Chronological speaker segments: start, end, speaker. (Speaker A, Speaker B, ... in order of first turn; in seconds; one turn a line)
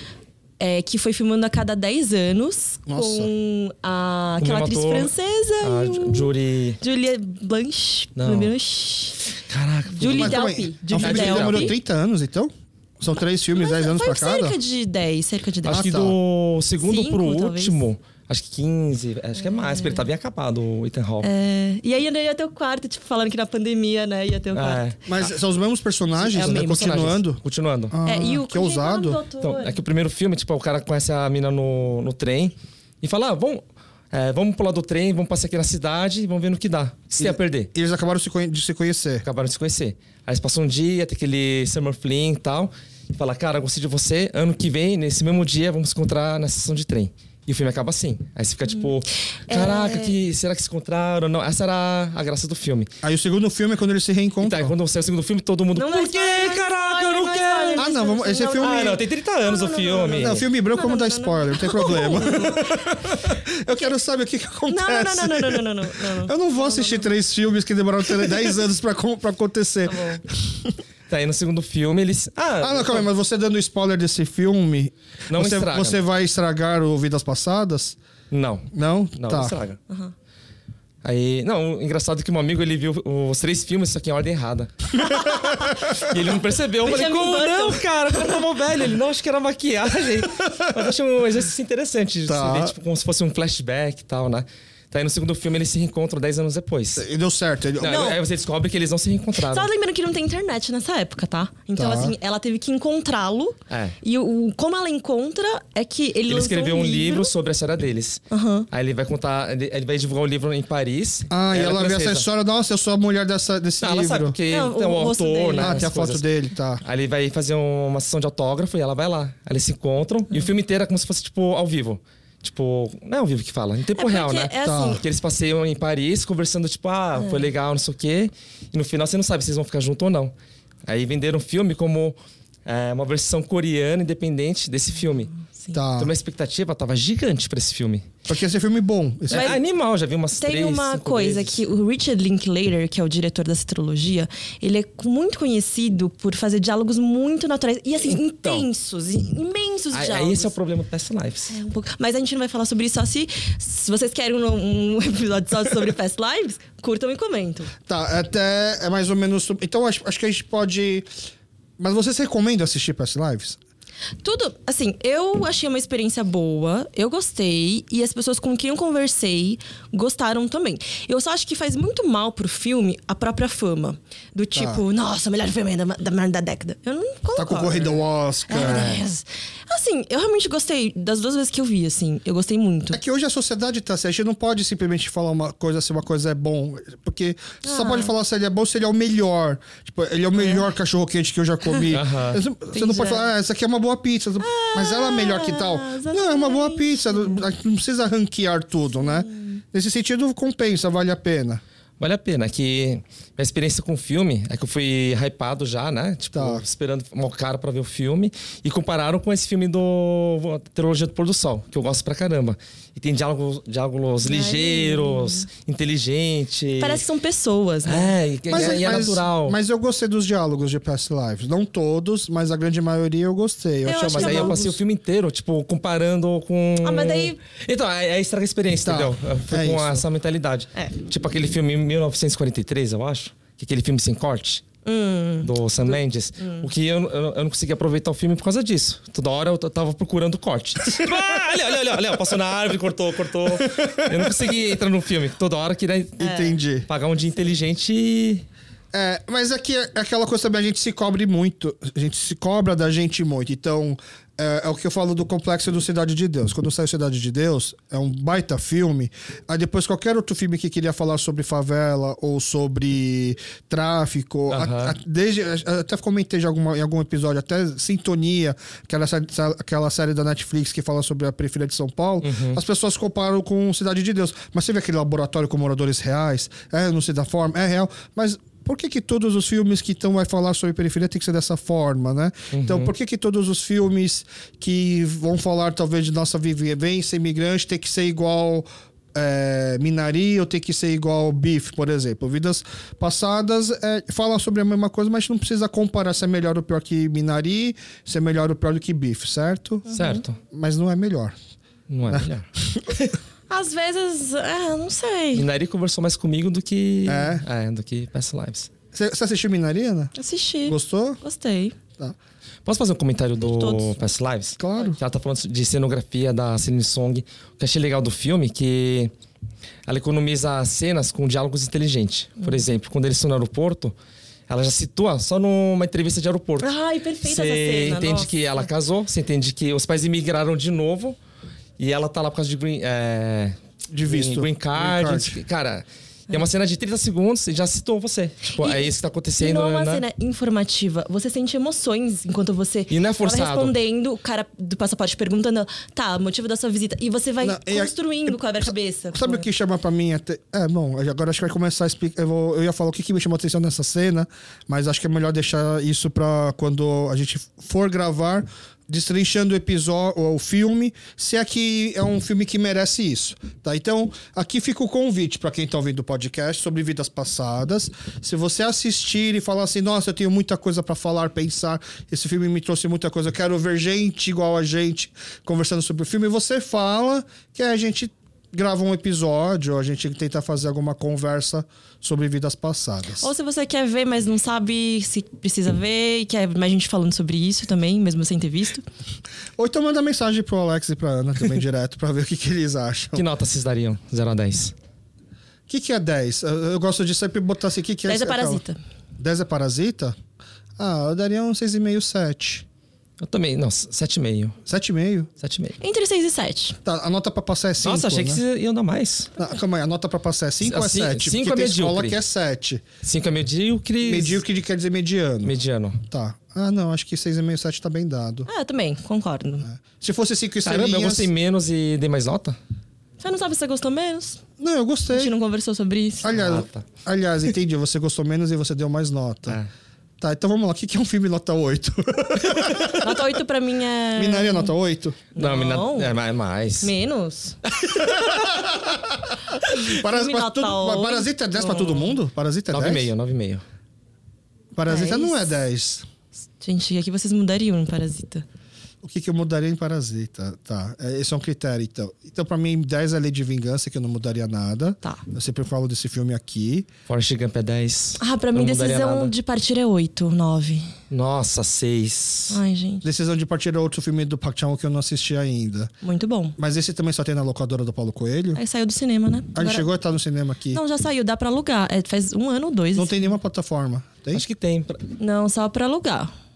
Speaker A: 0.6-9.2
Speaker B: 2.9-3.3
Speaker C: 4.4-6.8
Speaker C: 8.2-8.5
Speaker C: 9.5-11.7
Speaker A: 9.9-11.7
Speaker B: 10.1-14.6
Speaker A: 13.5-16.0
Speaker C: 15.7-21.3
Speaker B: 15.7-16.2
Speaker A: 16.8-17.8
Speaker A: 19.4-20.0
Speaker A: 21.2-24.9
Speaker C: 24.5-25.2
Speaker B: 25.1-29.2
Speaker A: 26.2-27.0
Speaker C: 26.4-27.9
Speaker A: 28.1-29.7
Speaker C: 29.4-37.7
Speaker B: 37.2-39.3
Speaker C: 39.2-52.9
Speaker A: 49.5-50.1
Speaker B: 53.0-54.7
Speaker C: 54.4-57.9
Speaker A: 55.8-62.9
Speaker B: 57.8-59.0
Speaker C: 58.6-60.5
Speaker B: 60.1-70.8
Speaker A: 64.7-67.1
Speaker A: 69.9-70.2
Speaker C: 71.1-73.1
Speaker B: 72.6-78.0
Speaker C: 75.3-76.0
Speaker C: 78.3-79.8
Speaker B: 78.7-79.6
Speaker C: 81.0-84.9
Speaker A: 85.0-85.8
Speaker C: 85.9-97.0
Speaker A: 86.8-88.4
Speaker B: 92.3-92.7
Speaker B: 97.0-98.2
Speaker C: 97.8-99.7
Speaker A: 97.9-98.2
Speaker A: 99.4-107.3
Speaker B: 101.8-102.1
Speaker C: 103.7-104.0
Speaker C: 106.3-112.3
Speaker A: 108.3-108.7
Speaker B: 111.3-114.4
Speaker C: 113.8-116.3
Speaker A: 114.5-115.9
Speaker B: 115.6-116.8
Speaker C: 116.8-130.3
Speaker A: 124.0-125.0
Speaker B: 124.6-125.0
Speaker A: 127.2-127.5
Speaker C: 130.9-135.3
Speaker A: 135.4-135.7
Speaker B: 135.7-136.1
Speaker C: 136.0-138.1
Speaker B: 138.3-139.6
Speaker A: 139.3-139.6
Speaker C: 139.3-141.6
Speaker A: 140.4-150.5
Speaker C: 148.0-148.7
Speaker C: 149.9-151.5
Speaker A: 151.5-157.7
Speaker B: 157.9-161.1
Speaker B: 161.8-163.6
Speaker A: 164.2-183.0
Speaker B: 174.6-174.8
Speaker B: 177.4-178.9
Speaker C: 178.6-179.0
Speaker B: 182.9-201.6
Speaker A: 187.6-188.1
Speaker A: 190.4-190.7
Speaker C: 191.9-192.4
Speaker A: 192.7-193.3
Speaker A: 194.4-197.5
Speaker A: 199.0-199.6
Speaker C: 202.0-217.0
Speaker B: 206.3-206.6
Speaker A: 214.2-215.5
Speaker A: 216.8-218.6
Speaker C: 217.9-219.6
Speaker B: 218.5-224.8
Speaker A: 223.8-224.6
Speaker C: 224.0-234.7
Speaker A: 226.8-227.4
Speaker B: 228.8-230.0
Speaker A: 234.8-236.7
Speaker C: 235.4-248.4
Speaker B: 243.5-244.5
Speaker B: 246.2-246.9
Speaker A: 246.2-246.6
Speaker B: 248.9-299.9
Speaker C: 264.5-264.9
Speaker C: 272.2-272.6
Speaker C: 282.5-282.9
Speaker A: 299.9-300.2
Speaker C: 299.9-300.4
Speaker B: 300.4-301.4
Speaker C: 301.9-303.1
Speaker B: 302.1-302.9
Speaker A: 303.5-305.5
Speaker C: 305.3-308.7
Speaker B: 307.1-307.4
Speaker B: 308.9-310.1
Speaker A: 310.1-311.8
Speaker B: 310.7-311.2
Speaker C: 312.6-319.1
Speaker A: 313.4-313.9
Speaker B: 314.6-315.0
Speaker C: 319.9-323.9
Speaker C: 324.5-326.7
Speaker A: 326.6-328.6
Speaker C: 327.2-331.2
Speaker C: 331.8-340.0
Speaker B: 333.9-335.4
Speaker A: 338.6-349.5
Speaker C: 342.9-343.7
Speaker B: 347.4-383.3
Speaker A: 383.2-388.9
Speaker B: 389.6-393.2
Speaker C: 393.1-394.7
Speaker B: 395.7-398.6
Speaker A: 398.1-398.8
Speaker B: 399.2-400.2
Speaker B: 400.8-402.6
Speaker C: 403.2-404.6
Speaker B: 404.7-405.3
Speaker C: 405.4-405.8
Speaker A: 405.8-406.8
Speaker B: 406.9-408.4
Speaker C: 407.8-409.3
Speaker B: 409.4-412.8
Speaker C: 410.6-412.2
Speaker C: 413.0-414.4
Speaker B: 414.0-415.5
Speaker C: 415.4-416.0
Speaker B: 416.1-418.5
Speaker A: 418.5-419.7
Speaker B: 419.6-421.3
Speaker C: 420.6-422.6
Speaker A: 423.2-424.4
Speaker B: 424.6-425.3
Speaker A: 425.1-426.4
Speaker B: 426.2-429.6
Speaker C: 426.3-426.9
Speaker B: 430.2-433.2
Speaker A: 432.9-434.7
Speaker B: 434.2-435.2
Speaker A: 435.4-436.2
Speaker C: 435.4-436.9
Speaker A: 436.8-437.6
Speaker C: 437.7-438.5
Speaker B: 438.1-443.1
Speaker A: 439.6-442.2
Speaker C: 442.7-443.6
Speaker B: 444.8-446.1
Speaker A: 444.9-445.5
Speaker A: 446.6-448.4
Speaker B: 449.0-456.9
Speaker C: 457.1-459.3
Speaker A: 458.2-460.9
Speaker C: 461.1-462.6
Speaker A: 462.5-463.1
Speaker B: 463.0-465.9
Speaker A: 466.0-466.6
Speaker B: 466.6-468.6
Speaker A: 468.6-469.9
Speaker B: 469.5-470.8
Speaker A: 470.7-473.3
Speaker B: 472.9-474.4
Speaker C: 474.3-475.1
Speaker A: 475.2-476.3